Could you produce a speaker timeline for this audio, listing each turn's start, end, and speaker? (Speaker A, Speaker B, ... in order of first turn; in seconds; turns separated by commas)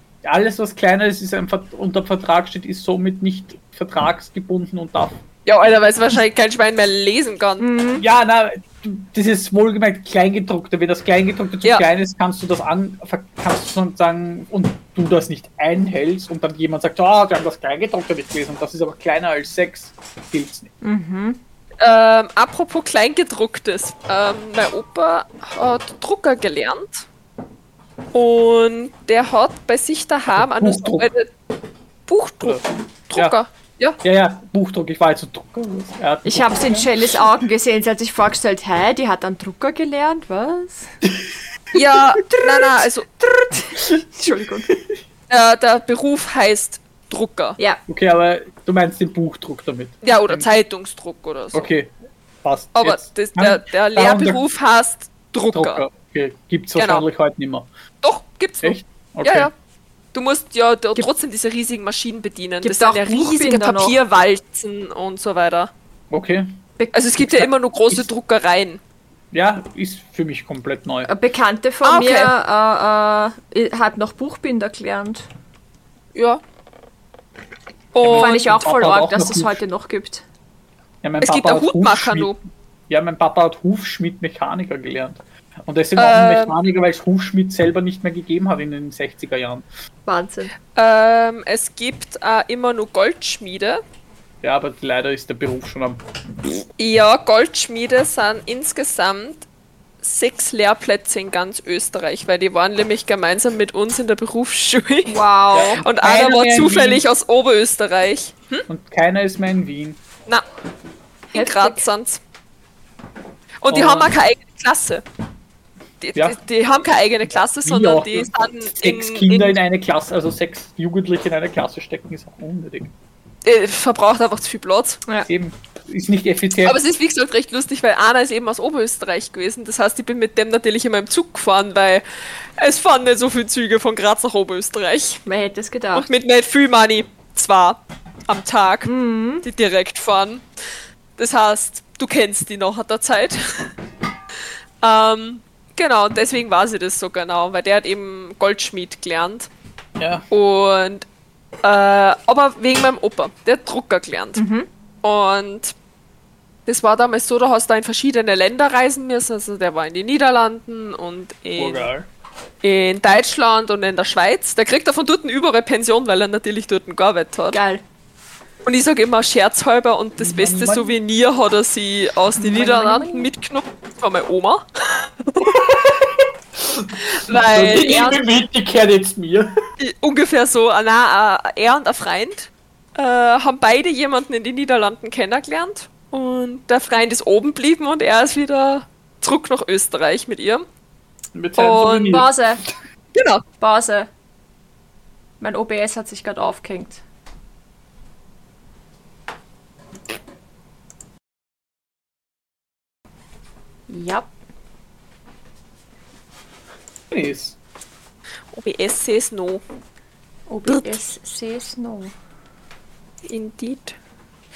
Speaker A: 0.2-5.2, Speaker B: 5.5-7.7, Speaker C: 7.6-8.0, Speaker A: 8.0-20.7, Speaker C: 20.8-21.4, Speaker B: 21.8-27.1, Speaker B: 28.1-31.3, Speaker A: 30.3-31.1, Speaker B: 32.1-34.0, Speaker A: 32.4-33.4, Speaker A: 34.0-37.2, Speaker C: 36.2-40.9, Speaker B: 41.7-43.1, Speaker C: 42.2-44.7, Speaker A: 44.2-44.8, Speaker B: 45.3-47.6, Speaker A: 47.9-50.5, Speaker B: 50.0-51.7, Speaker A: 51.5-51.9, Speaker A: 52.4-54.4, Speaker B: 52.8-55.8, Speaker A: 55.5-57.7, Speaker B: 56.8-57.1, Speaker B: 58.0-59.5, Speaker A: 58.6-59.5, Speaker B: 60.1-65.7, Speaker C: 62.6-64.0, Speaker A: 66.1-66.5, Speaker C: 66.8-67.1, Speaker B: 66.9-68.8, Speaker A: 67.2-68.0, Speaker A: 69.3-71.1, Speaker C: 71.1-75.3, Speaker B: 71.8-72.3, Speaker B: 76.1-76.4, Speaker B: 77.9-78.4, Speaker A: 78.0-79.6, Speaker C: 78.1-80.2, Speaker A: 81.0-82.3, Speaker B: 81.2-82.4, Speaker A: 82.9-89.7, Speaker B: 86.0-86.6, Speaker C: 90.1-90.5, Speaker B: 90.8-93.8, Speaker A: 94.4-96.0, Speaker B: 96.8-99.5, Speaker B: 100.0-108.7, Speaker C: 105.1-105.8, Speaker A: 105.5-107.0, Speaker A: 108.7-110.0, Speaker C: 111.3-111.8, Speaker B: 111.3-112.2, Speaker B: 113.6-115.0, Speaker A: 113.7-114.2, Speaker B: 116.0-119.6, Speaker A: 117.6-118.3, Speaker A: 118.8-122.9, Speaker B: 123.4-125.0, Speaker A: 125.2-126.8, Speaker B: 126.7-132.0, Speaker B: 132.6-135.2, Speaker C: 135.3-136.1, Speaker B: 135.9-138.9, Speaker C: 138.9-139.5, Speaker B: 139.4-140.4, Speaker B: 141.2-143.7, Speaker B: 144.8-149.5, Speaker A: 150.0-150.2, Speaker B: 150.3-151.1, Speaker B: 151.6-154.4, Speaker C: 154.4-154.7, Speaker B: 155.0-155.8, Speaker B: 156.7-161.9, Speaker A: 161.6-162.1, Speaker B: 162.6-167.6, Speaker C: 167.5-167.8, Speaker B: 168.7-175.1, Speaker A: 170.2-171.0, Speaker C: 172.4-173.3, Speaker A: 175.4-179.5, Speaker B: 177.1-178.2, Speaker B: 179.8-190.7, Speaker A: 191.3-192.3, Speaker B: 191.6-192.2, Speaker C: 192.0-192.6, Speaker B: 193.2-193.4, Speaker C: 193.6-194.1, Speaker C: 195.4-197.0, Speaker C: 203.9-204.3, Speaker A: 207.1-207.6, Speaker B: 208.5-209.6, Speaker C: 210.5-212.1, Speaker B: 210.7-211.0, Speaker B: 213.3-214.0